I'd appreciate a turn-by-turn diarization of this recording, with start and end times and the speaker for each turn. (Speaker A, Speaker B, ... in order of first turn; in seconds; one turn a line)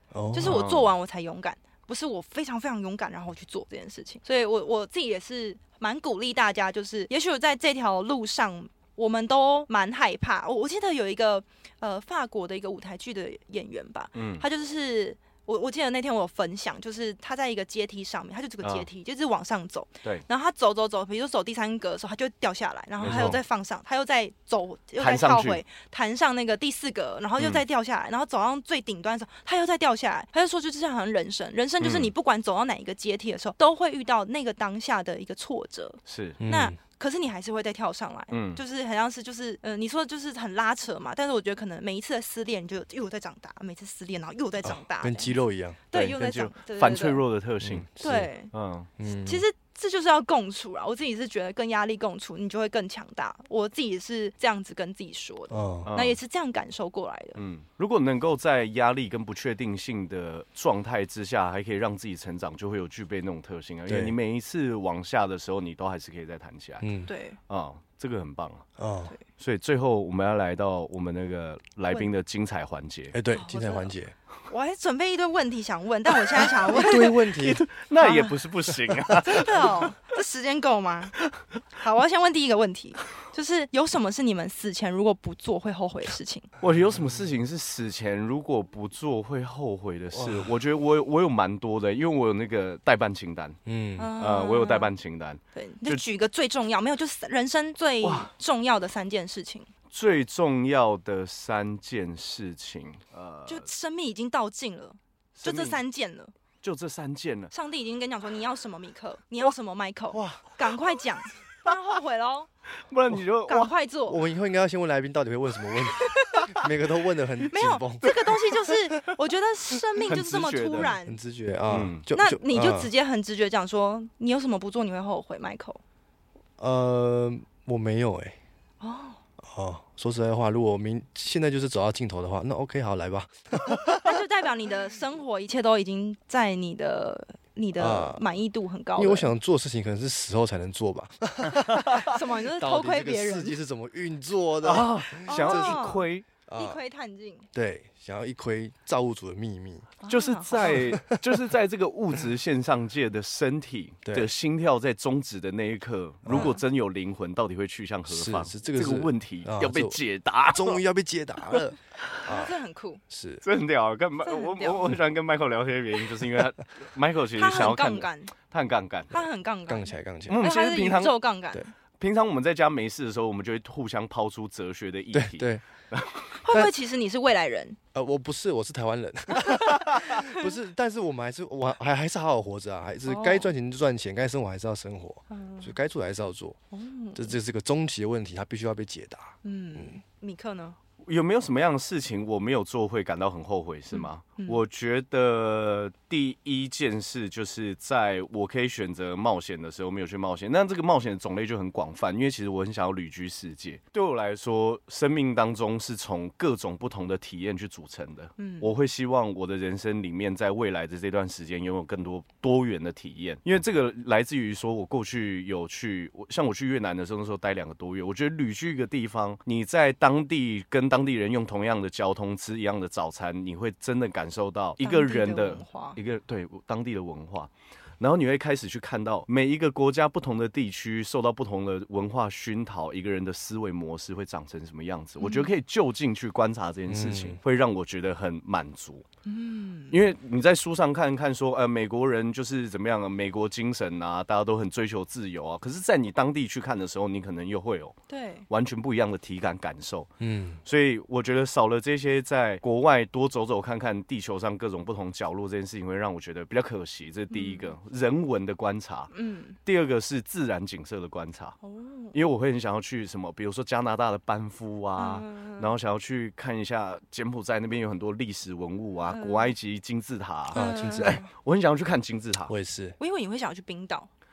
Speaker A: 0.1-0.6
Speaker B: 0.3-45.4
Speaker C: 0.4-0.9
Speaker C: 14.1-14.4
Speaker C: 18.6-18.9
Speaker C: 23.0-23.4
Speaker A: 23.1-23.3
Speaker C: 25.0-25.6
Speaker C: 31.8-32.1
Speaker C: 36.1-36.4
Speaker A: 36.4-36.8
Speaker C: 38.3-38.6
Speaker A: 44.6-45.8
Speaker B: 45.9-47.2
Speaker C: 45.9-47.9
Speaker A: 47.6-48.3
Speaker B: 48.0-48.5
Speaker C: 48.5-48.9
Speaker A: 49.0-49.4
Speaker B: 49.1-57.4
Speaker A: 55.5-55.9
Speaker C: 55.9-56.2
Speaker C: 57.4-66.9
Speaker A: 63.9-64.1
Speaker A: 66.8-67.1
Speaker B: 67.1-67.4
Speaker C: 67.5-68.7
Speaker A: 68.8-69.1
Speaker C: 69.4-73.2
Speaker A: 73.1-74.1
Speaker B: 73.3-73.9
Speaker B: 74.5-77.4
Speaker A: 76.6-77.6
Speaker C: 76.9-79.9
Speaker B: 78.0-78.4
Speaker B: 79.1-81.2
Speaker B: 81.8-86.5
Speaker C: 86.6-93.6
Speaker A: 90.1-90.5
Speaker A: 93.7-94.1
Speaker B: 94.0-94.9
Speaker C: 94.2-96.0
Speaker B: 95.5-99.7
Speaker C: 98.0-98.3
Speaker C: 99.9-103.7
Speaker B: 103.5-106.3
Speaker C: 105.4-105.8
Speaker C: 106.6-107.5
Speaker B: 107.5-112.5
Speaker A: 110.1-110.5
Speaker C: 112.9-113.7
Speaker B: 113.5-114.2
Speaker A: 114.1-118.1
Speaker B: 115.8-116.5
Speaker B: 117.5-121.2
Speaker C: 120.1-120.9
Speaker A: 120.8-122.9
Speaker C: 121.7-122.0
Speaker B: 122.1-125.8
Speaker A: 126.6-128.4
Speaker B: 128.8-129.2
Speaker A: 129.4-134.2
Speaker B: 133.9-139.3
Speaker A: 137.8-138.2
Speaker A: 139.0-146.8
Speaker C: 141.6-142.0
Speaker B: 142.0-143.6
Speaker C: 144.6-146.2
Speaker B: 145.3-147.5
Speaker A: 147.5-149.9
Speaker B: 150.0-151.0
Speaker C: 150.1-160.8
Speaker A: 150.6-151.4
Speaker A: 154.1-154.3
Speaker A: 156.2-156.6
Speaker B: 156.3-156.6
Speaker A: 158.1-162.6
Speaker B: 162.2-163.0
Speaker A: 163.1-163.4
Speaker C: 163.4-169.3
Speaker B: 164.2-164.8
Speaker B: 167.3-168.3
Speaker B: 169.1-171.7
Speaker A: 169.7-170.4
Speaker C: 170.3-171.2
Speaker C: 172.0-176.4
Speaker A: 175.1-175.6
Speaker B: 176.4-177.8
Speaker A: 177.9-186.6
Speaker B: 179.4-180.5
Speaker B: 183.1-183.5
Speaker B: 185.3-185.7
Speaker B: 186.7-187.4
Speaker A: 187.1-190.0
Speaker B: 189.4-190.8
Speaker C: 191.1-239.1
Speaker B: 193.9-194.6
Speaker B: 208.4-208.7
Speaker B: 224.8-226.0
Speaker B: 235.2-235.5
Speaker A: 236.9-237.4
Speaker B: 239.2-240.0
Speaker C: 239.9-248.0
Speaker B: 248.1-248.5
Speaker C: 248.5-250.1
Speaker A: 250.2-250.6
Speaker C: 250.6-259.1
Speaker B: 257.3-257.7
Speaker B: 259.1-259.6
Speaker C: 259.6-261.6
Speaker B: 261.6-262.1
Speaker C: 262.1-272.5
Speaker B: 265.0-265.7
Speaker B: 269.1-269.5
Speaker A: 270.5-271.2
Speaker B: 270.5-271.3
Speaker A: 272.5-273.0
Speaker B: 273.0-274.1